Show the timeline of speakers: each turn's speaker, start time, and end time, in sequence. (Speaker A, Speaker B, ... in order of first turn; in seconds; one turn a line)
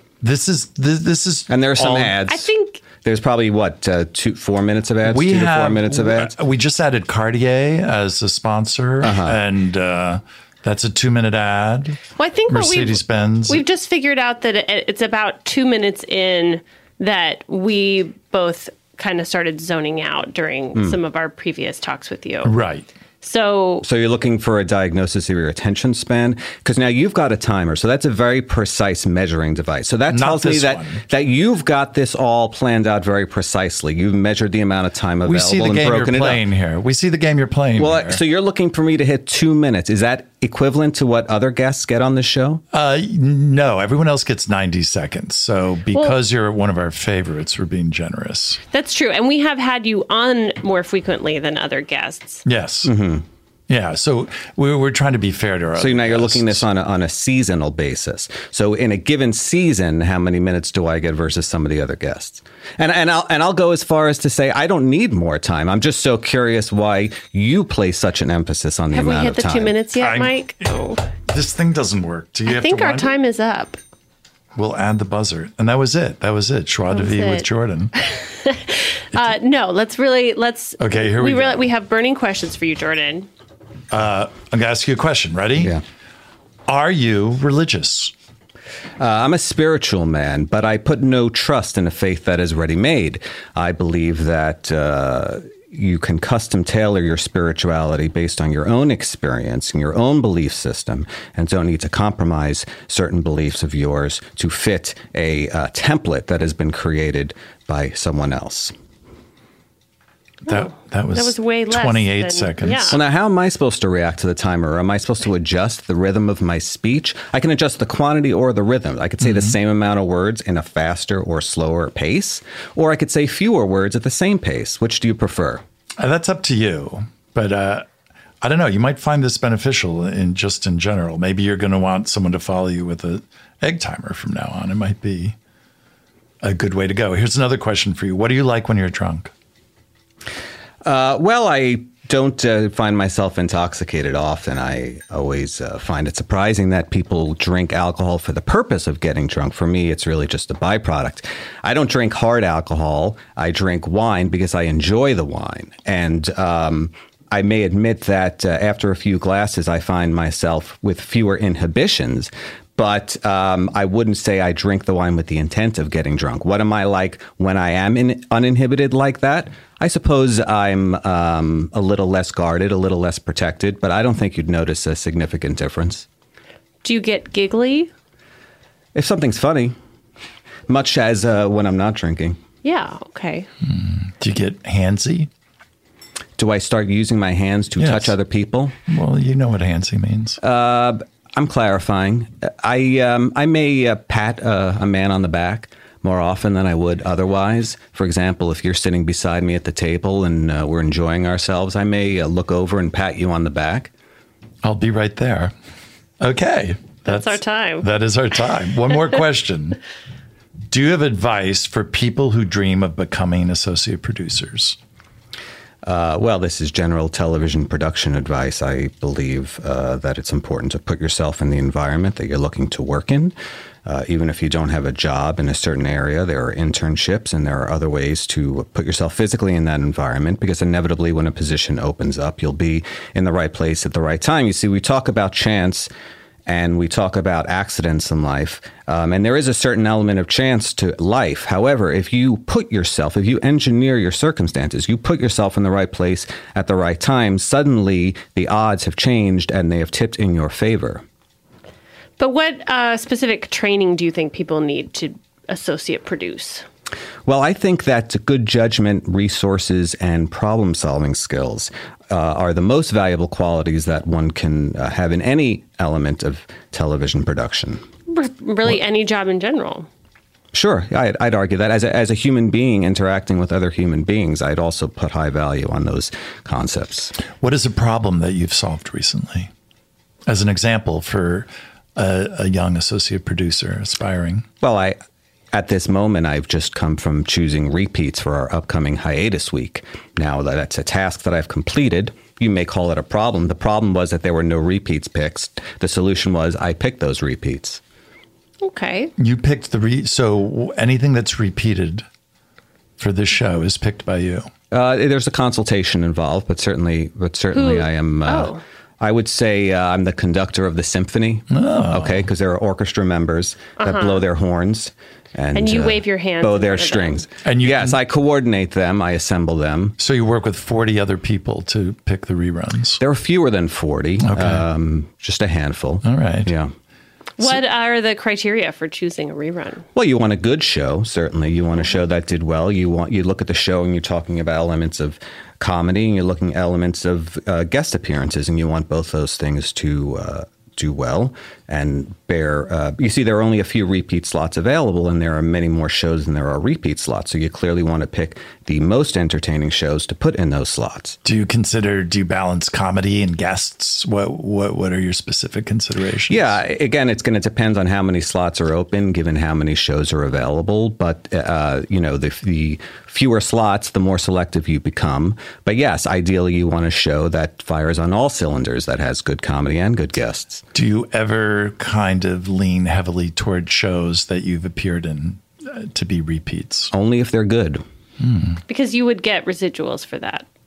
Speaker A: 0.2-2.2
Speaker B: 1.5-6.3
Speaker C: 2.3-2.8
Speaker A: 5.0-13.6
Speaker B: 9.0-9.4
Speaker C: 12.2-22.5
Speaker B: 20.8-21.0
Speaker A: 22.4-22.9
Speaker C: 23.2-23.8
Speaker B: 23.8-36.4
Speaker A: 30.1-31.0
Speaker A: 35.2-38.2
Speaker B: 37.8-42.6
Speaker A: 42.7-48.6
Speaker C: 48.7-52.4
Speaker A: 52.5-52.9
Speaker B: 52.8-53.2
Speaker A: 53.7-56.6
Speaker B: 55.8-69.8
Speaker C: 68.9-71.0
Speaker A: 70.0-73.2
Speaker C: 72.5-73.8
Speaker A: 74.5-77.9
Speaker C: 76.9-77.5
Speaker C: 78.0-83.3
Speaker A: 80.8-81.7
Speaker A: 83.9-85.7
Speaker B: 85.6-85.8
Speaker A: 86.7-88.1
Speaker B: 89.0-108.7
Speaker A: 110.5-113.0
Speaker C: 110.5-113.0
Speaker B: 112.9-125.6
Speaker A: 119.2-119.6
Speaker A: 126.0-127.9
Speaker A: 128.4-135.3
Speaker A: 136.4-139.3
Speaker B: 140.8-176.1
Speaker C: 176.8-177.9
Speaker B: 178.9-179.8
Speaker B: 180.7-182.4
Speaker C: 182.6-183.5
Speaker A: 183.6-185.3
Speaker B: 186.4-188.8
Speaker A: 187.8-188.2
Speaker A: 188.9-190.4
Speaker B: 190.4-203.9
Speaker A: 204.6-205.5
Speaker A: 206.2-209.8
Speaker C: 207.1-207.9
Speaker A: 210.7-214.8
Speaker B: 215.8-223.3
Speaker B: 223.9-235.9
Speaker B: 236.5-251.0
Speaker C: 252.2-256.6
Speaker B: 257.3-267.8
Speaker C: 268.1-269.9
Speaker B: 270.5-277.1
Speaker A: 277.4-279.5
Speaker A: 280.3-284.4
Speaker B: 284.6-285.0
Speaker B: 285.5-297.8
Speaker C: 298.6-299.1
Speaker A: 299.2-302.1
Speaker A: 303.0-304.5
Speaker B: 304.7-320.0
Speaker C: 307.5-308.6
Speaker A: 311.5-312.3
Speaker C: 313.8-314.2
Speaker C: 315.5-317.2
Speaker A: 317.4-318.0
Speaker A: 320.0-323.0
Speaker B: 323.0-326.7
Speaker A: 324.2-324.7
Speaker A: 326.0-326.5
Speaker C: 327.4-329.9
Speaker B: 329.9-351.2
Speaker A: 351.2-356.6
Speaker B: 356.3-370.6
Speaker A: 370.7-376.9
Speaker B: 376.9-377.8
Speaker A: 378.2-378.6
Speaker C: 378.7-380.4